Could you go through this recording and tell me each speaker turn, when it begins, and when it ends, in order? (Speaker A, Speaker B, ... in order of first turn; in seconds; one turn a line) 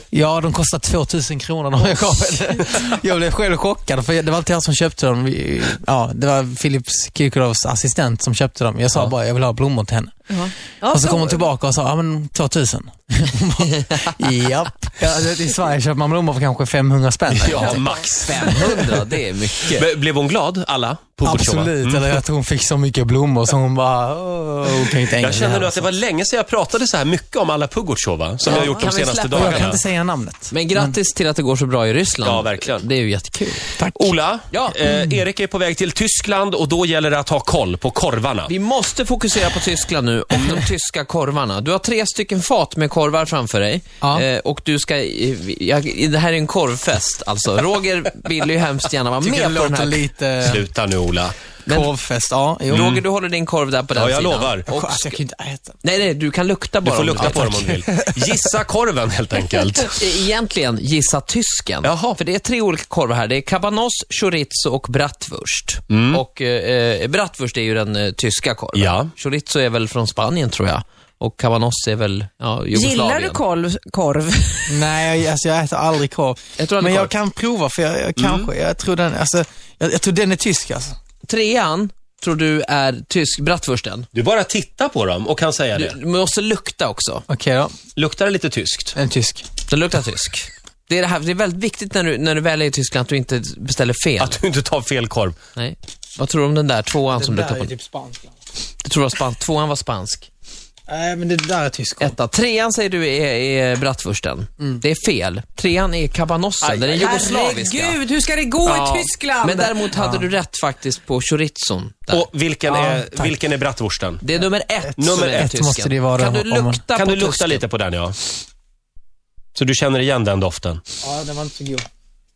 Speaker A: 0.1-10.1
Speaker B: 10.3-11.4
Speaker A: 10.9-17.8
Speaker C: 17.3-18.6
Speaker D: 17.5-19.8
Speaker C: 19.7-22.2
Speaker A: 21.2-25.9
Speaker C: 24.6-29.8
Speaker D: 28.4-29.8
Speaker A: 28.5-30.9
Speaker D: 30.5-33.7
Speaker C: 32.2-32.9
Speaker A: 33.8-34.1
Speaker C: 33.9-38.5
Speaker D: 34.5-34.8
Speaker A: 34.9-35.2
Speaker D: 38.5-50.0
Speaker A: 49.2-50.7
Speaker C: 50.4-51.4
Speaker D: 51.6-51.9
Speaker A: 51.7-53.0
Speaker D: 52.7-55.2
Speaker C: 52.7-53.0
Speaker C: 53.9-54.7
Speaker A: 54.7-55.8
Speaker D: 55.8-57.7
Speaker C: 56.8-60.0
Speaker A: 57.2-58.4
Speaker D: 60.0-73.4
Speaker C: 61.8-62.2
Speaker C: 65.9-66.2
Speaker C: 68.7-69.1
Speaker B: 72.7-74.8
Speaker A: 74.7-81.0
Speaker D: 76.6-77.1
Speaker C: 78.2-78.5
Speaker D: 81.2-84.1
Speaker C: 84.1-86.0
Speaker D: 85.7-87.2
Speaker A: 87.3-87.7
Speaker C: 88.0-88.9
Speaker A: 88.9-89.5
Speaker D: 89.7-94.4
Speaker C: 94.2-95.3
Speaker D: 95.5-97.7
Speaker A: 97.1-98.3
Speaker D: 98.8-100.3
Speaker A: 100.9-102.2
Speaker D: 102.0-108.0
Speaker C: 106.6-107.2
Speaker B: 106.9-109.8
Speaker D: 108.6-112.2
Speaker A: 110.0-110.3
Speaker C: 112.1-114.2
Speaker A: 112.7-113.3
Speaker D: 114.2-117.6
Speaker A: 114.8-116.8
Speaker C: 115.0-115.5
Speaker C: 116.9-118.2
Speaker C: 119.5-120.8
Speaker A: 121.0-121.8